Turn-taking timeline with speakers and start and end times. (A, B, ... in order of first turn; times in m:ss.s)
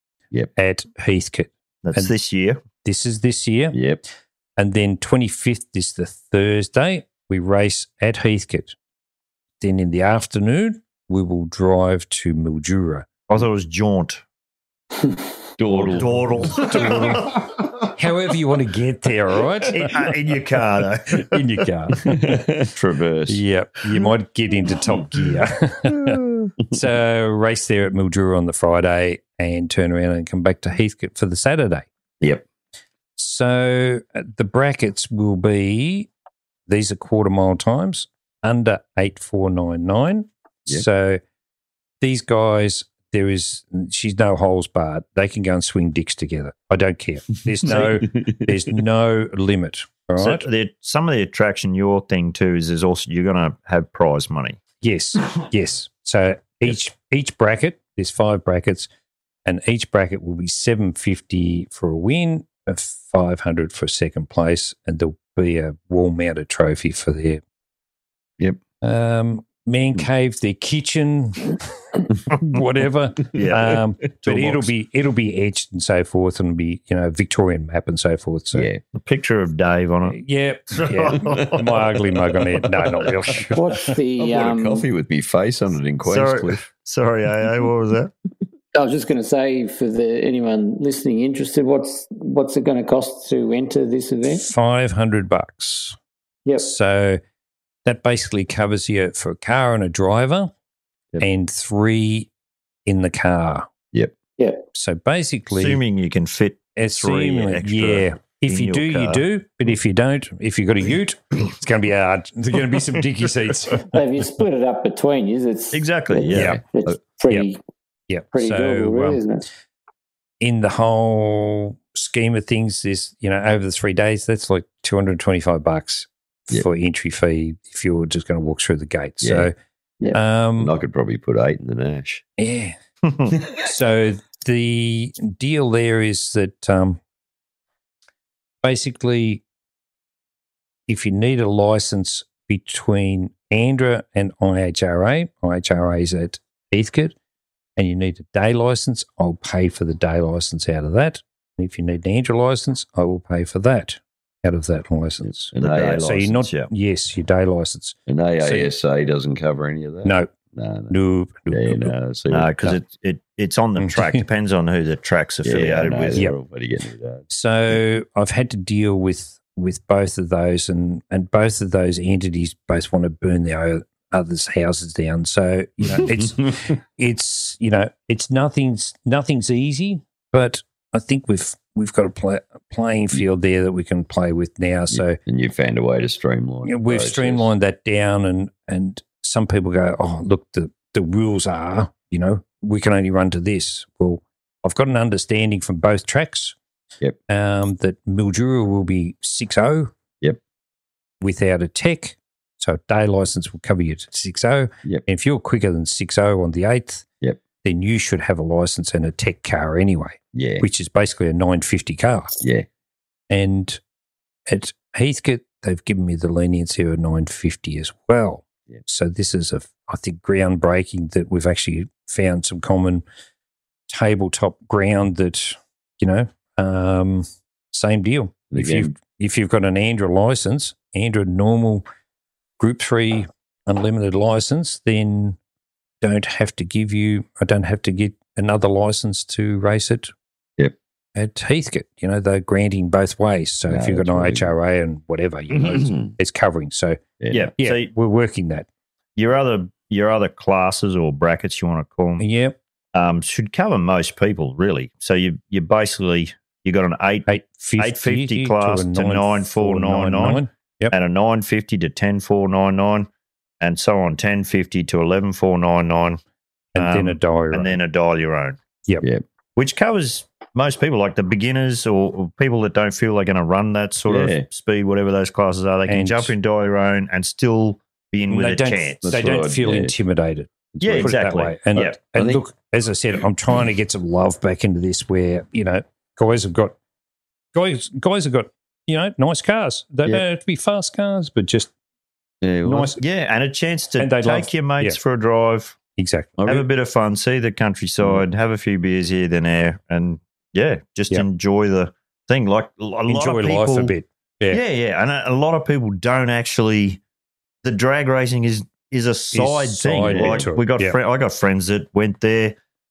0:00.6-0:02.1 A
0:01.8-0:02.6 B
0:02.8-0:03.8 A
0:03.7-0:04.0 C
0:04.6-0:08.8 A
0:09.6-0:13.1 A
0:13.3-0:14.2 B
0:15.6-0:17.3 C
0:15.7-0:17.5 B
0:16.6-0:17.4 A
0:18.0-0:20.1 A
0:19.7-0:21.4 B
0:21.2-0:22.4 A
0:22.0-0:23.4 C
0:23.3-0:31.9 A
0:33.2-0:36.1 A
0:36.7-0:41.2 A
0:42.0-0:50.5 A
0:47.7-0:48.6 C
0:50.2-0:54.6 B
0:54.8-0:58.9 A
0:59.4-1:07.4 A
1:08.8-1:18.7 A
1:13.3-1:14.7 B
1:18.5-1:18.8 C
1:19.0-1:21.8 B
1:20.1-1:24.0 A
1:22.6-1:23.1 C
1:23.5-1:24.9 D
1:24.2-1:26.6 C
1:26.0-1:28.1 B
1:28.7-1:34.5 D
1:34.3-1:36.0 A
1:36.6-1:37.2 A
1:37.8-1:40.5 A
1:41.2-1:42.3 A
1:42.9-1:43.7 A
1:44.7-1:45.8 A
1:45.5-1:49.2 B
1:46.8-1:54.0 A
1:53.8-1:57.6 D
1:55.7-1:56.6 B
1:56.3-1:56.6 C
1:56.3-1:56.6 A
1:58.1-1:59.2 A
1:58.3-1:59.4 D
2:00.4-2:09.5 A
2:09.2-2:12.2 C
2:10.1-2:10.7 A
2:12.4-2:12.8 A
2:13.1-2:13.3 B
2:13.5-2:17.0 A
2:18.6-2:19.4 A
2:20.9-2:27.2 A
2:27.8-2:35.5 A
2:35.2-2:36.2 C
2:35.6-2:36.7 B
2:36.0-2:38.7 A
2:38.1-2:41.0 C
2:40.0-2:40.3 A
2:40.9-2:41.9 A
2:41.5-2:42.5 C
2:42.3-2:46.2 B
2:43.8-2:44.2 A
2:45.4-2:47.3 C
2:47.3-3:05.2 A
2:55.9-2:56.5 C
3:04.9-3:07.5 C
3:06.6-3:16.6 A
3:17.3-3:19.9 A
3:21.2-3:27.0 A
3:27.6-3:32.4 A
3:30.3-3:30.7 C
3:32.4-3:32.7 C
3:33.3-3:33.8 A
3:34.5-3:43.0 A
3:43.9-3:51.8 A
3:48.5-3:49.0 C
3:52.6-3:55.4 A
3:56.0-4:00.1 A
4:01.2-4:07.0 A
4:03.7-4:04.5 C
4:05.5-4:06.2 C
4:07.2-4:07.5 C
4:07.3-4:07.9 B
4:07.6-4:08.7 A
4:09.2-4:12.2 B
4:12.2-4:12.6 A
4:12.9-4:23.1 B
4:17.3-4:20.9 A
4:23.6-4:26.2 B
4:26.8-4:27.8 A
4:26.8-4:28.6 B
4:29.6-4:39.0 B
4:34.1-4:34.5 C
4:35.9-4:36.3 A
4:38.3-4:46.8 A
4:39.0-4:39.9 C
4:40.7-4:41.1 C
4:40.8-4:42.0 B
4:42.2-4:42.4 C
4:47.5-4:51.7 A
4:52.4-4:52.9 C
4:52.6-4:53.0 A
4:53.0-4:55.8 B
4:54.0-4:55.0 A
4:56.0-4:56.5 A
4:56.4-4:56.6 C
4:56.4-5:03.9 B
5:03.1-5:04.6 A
5:04.5-5:07.0 B
5:07.6-5:12.6 B
5:09.3-5:11.0 A
5:10.1-5:10.5 C